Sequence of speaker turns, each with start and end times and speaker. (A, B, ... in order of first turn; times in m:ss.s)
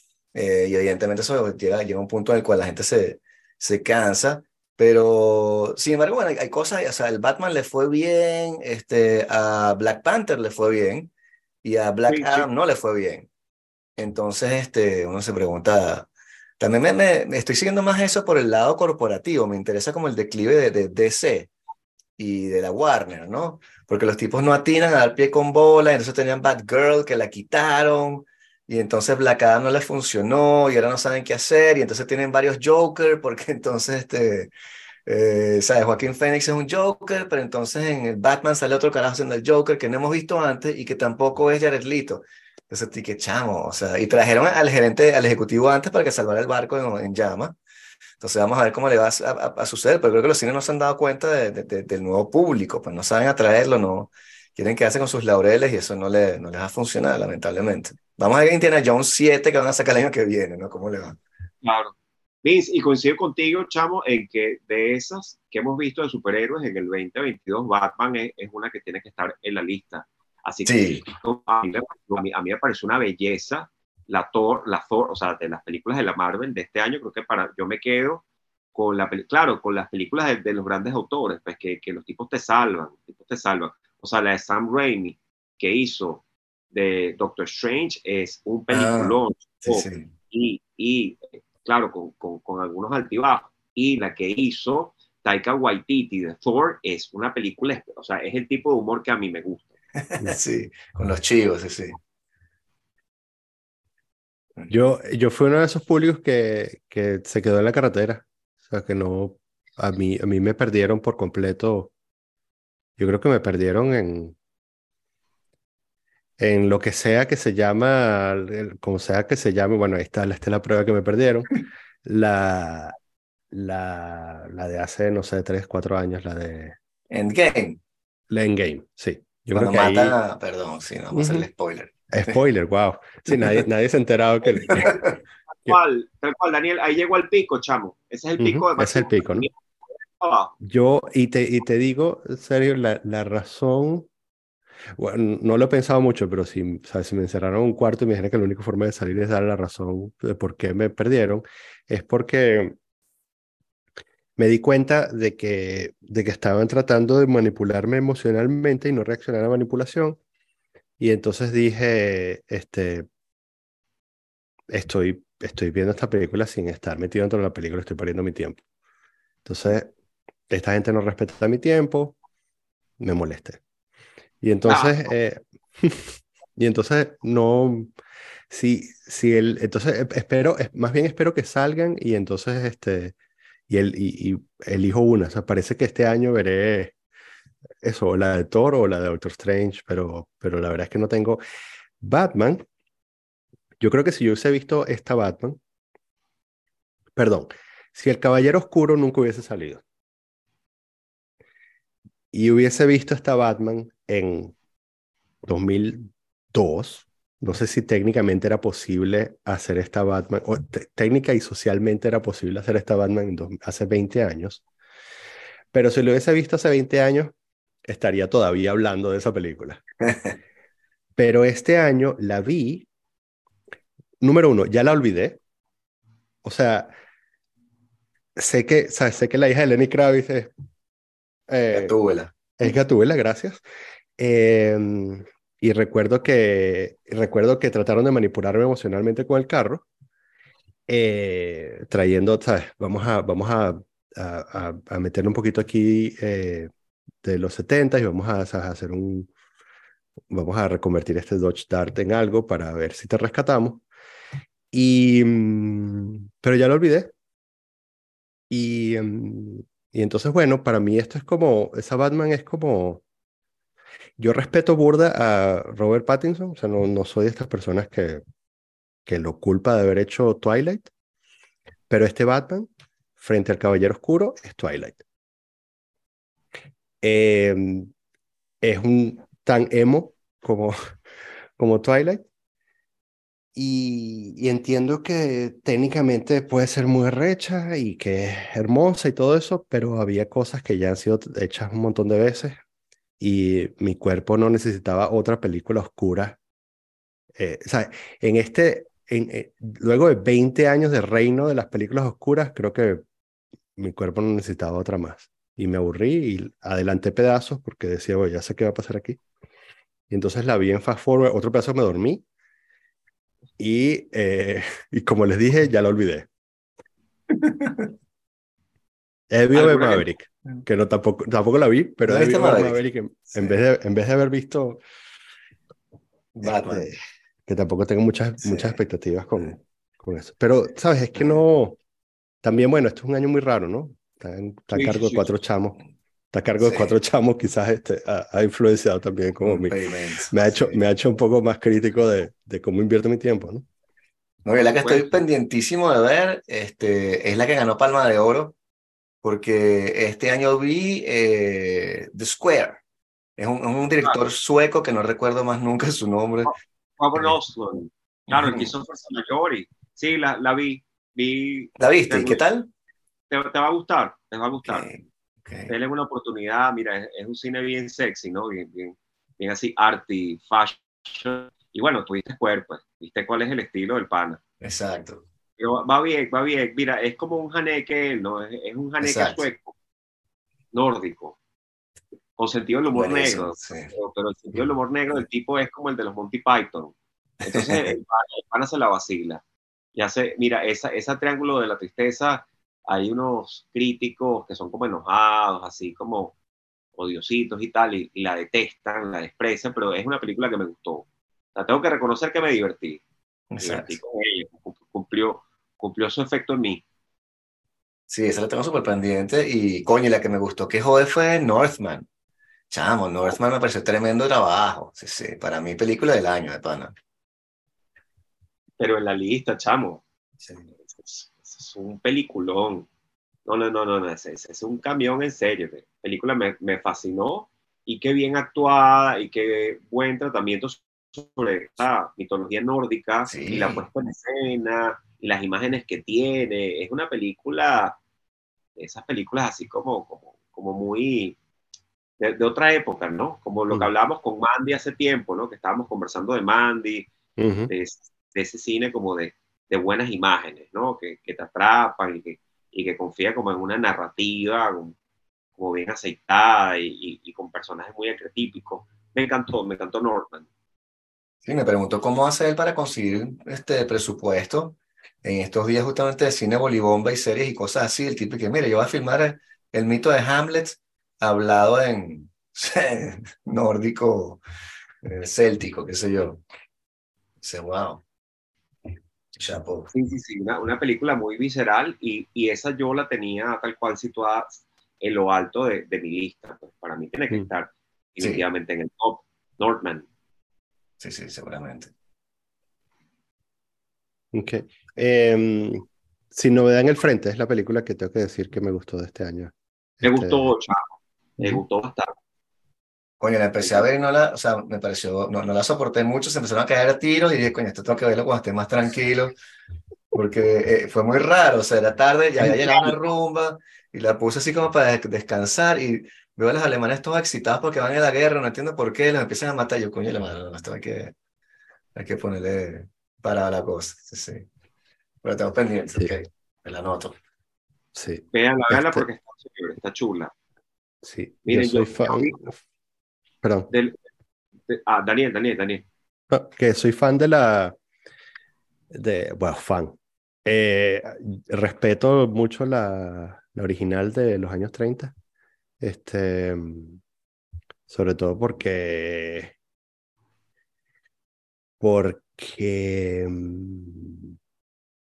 0:00.3-0:11.1 A
0:11.6-0:13.3 A
0:12.1-0:12.5 B
0:14.0-0:16.1 A
0:16.6-0:21.5 A
0:22.2-0:34.5 A
0:35.0-0:47.6 A
0:48.2-1:01.2 A
1:01.6-1:18.2 B
1:10.6-1:11.0 A
1:18.7-1:39.7 B
1:28.7-1:30.0 A
1:40.1-1:42.0 A
1:44.7-1:51.9 C
1:53.0-1:54.3 C
1:56.4-2:02.9 C
2:03.5-2:06.8 C
2:07.1-2:07.8 A
2:08.3-2:10.2 C
2:09.5-2:12.4 A
2:11.1-2:11.4 C
2:12.1-2:15.1 C
2:13.3-2:13.6 A
2:15.5-2:19.6 B
2:18.4-2:19.5 C
2:20.1-2:20.5 B
2:20.6-2:24.1 C
2:25.0-2:32.7 C
2:34.4-2:40.2 C
2:41.0-2:43.0 C
2:44.7-2:48.6 C
2:49.4-2:49.9 C
2:50.5-2:52.1 C
2:53.0-2:53.6 C
2:54.4-2:57.9 C
2:54.7-2:55.0 B
2:58.5-3:03.1 C
3:03.7-3:06.9 C
3:07.8-3:11.4 C
3:12.0-3:12.6 C
3:13.8-3:15.6 C
3:17.2-3:19.8 C
3:22.3-3:24.5 C
3:25.4-3:34.6 C
3:35.7-3:37.3 C
3:37.9-3:39.8 C
3:41.2-3:42.9 C
3:44.2-3:45.4 C
3:46.4-3:46.9 C
3:48.4-3:50.5 C
3:51.5-3:52.0 C
3:51.7-3:52.3 A
3:52.6-3:53.6 C
3:54.2-3:59.8 C
4:00.9-4:06.7 C
4:07.2-4:09.3 C
4:10.3-4:13.8 C
4:14.7-4:17.1 C
4:18.5-4:23.0 C
4:24.2-4:28.2 C
4:29.0-4:30.9 C
4:31.9-4:35.0 C
4:37.0-4:37.9 C
4:38.6-4:40.8 C
4:41.6-4:42.2 C
4:43.5-4:52.6 C
4:53.2-4:56.4 C
4:57.3-5:03.0 C
5:03.8-5:09.2 C
5:10.1-5:12.2 C
5:13.6-5:16.3 C
5:17.3-5:17.9 A
5:19.3-5:24.8 C
5:19.5-5:20.0 B
5:22.1-5:22.8 A
5:26.4-5:26.9 A
5:26.4-5:31.8 C
5:28.4-5:28.8 A
5:31.2-5:31.4 A
5:32.4-5:35.8 C
5:34.7-5:35.3 B
5:36.3-5:39.7 C
5:36.6-5:36.9 A
5:39.4-5:40.8 A
5:40.3-5:43.6 C
5:44.4-5:48.5 A
5:44.8-5:45.1 B
5:49.2-5:52.8 A
5:53.4-5:56.5 A
5:56.4-6:02.4 B
5:58.3-5:58.7 A
6:01.8-6:02.7 A
6:03.3-6:04.9 B
6:04.6-6:05.7 A
6:05.7-6:14.4 B
6:14.6-6:15.2 A
6:15.6-6:19.7 B
6:19.0-6:19.4 A
6:20.7-6:21.4 B
6:22.4-6:29.4 B
6:22.9-6:23.9 A
6:27.4-6:27.9 A
6:30.0-6:36.3 B
6:37.0-6:43.0 B
6:43.5-6:44.0 A
6:43.6-6:46.8 B
6:48.1-6:52.1 A
6:52.7-6:56.9 A
6:58.8-7:00.0 B
7:00.4-7:00.7 A
7:00.9-7:02.9 B
7:03.4-7:18.0 B
7:13.2-7:13.8 A
7:18.8-7:21.4 B
7:22.2-7:27.1 B
7:27.4-7:27.7 C
7:27.7-7:34.9 B
7:35.6-7:40.5 B
7:41.4-7:54.4 A
7:55.0-7:56.4 A
7:57.4-7:58.0 A
7:59.4-7:59.9 A
7:59.9-8:10.1 B
8:11.0-8:11.9 A
8:14.3-8:20.5 C
8:20.0-8:22.1 B
8:23.2-8:29.3 A
8:30.1-8:41.1 A
8:41.9-8:44.4 A
8:45.2-8:47.2 A
8:47.9-8:49.0 C
8:48.3-8:50.3 B
8:51.0-8:52.5 C
8:51.4-8:52.4 B
8:53.4-8:53.7 C
8:53.7-8:54.0 B
8:54.7-8:55.8 B
8:56.3-8:57.8 C
8:58.9-9:05.1 C
9:05.8-9:07.0 C
9:07.9-9:09.5 C
9:11.8-9:14.3 C